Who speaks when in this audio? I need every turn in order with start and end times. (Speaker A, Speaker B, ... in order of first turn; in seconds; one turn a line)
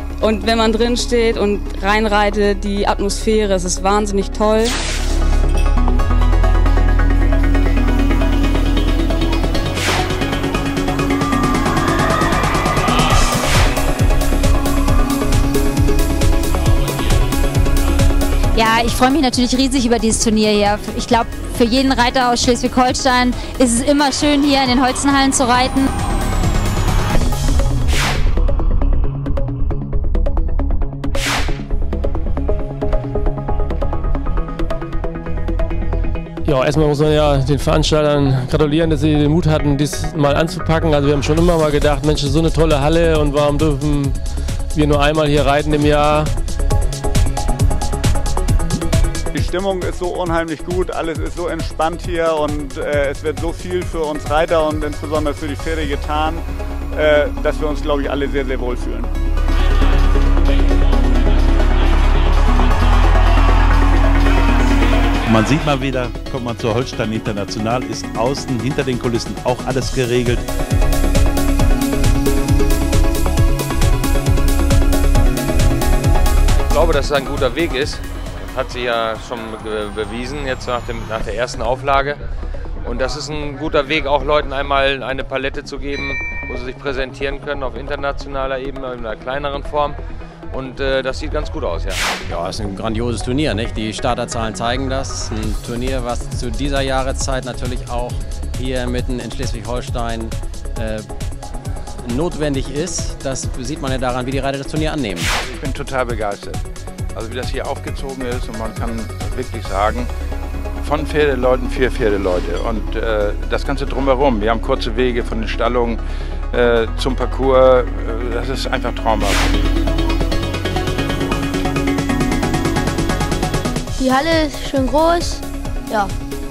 Speaker A: 0.2-4.8
Speaker B: 18.6-25.9
Speaker C: 36.5-44.2
Speaker C: 44.7-46.3
Speaker D: 49.3-59.1
Speaker E: 65.3-70.5
Speaker F: 76.6-82.2
Speaker F: 82.8-90.0
Speaker F: 90.5-92.0
Speaker G: 92.3-101.1
Speaker G: 102.0-105.3
Speaker H: 105.4-106.6
Speaker H: 107.1-110.1
Speaker H: 110.8-119.6
Speaker I: 124.0-126.1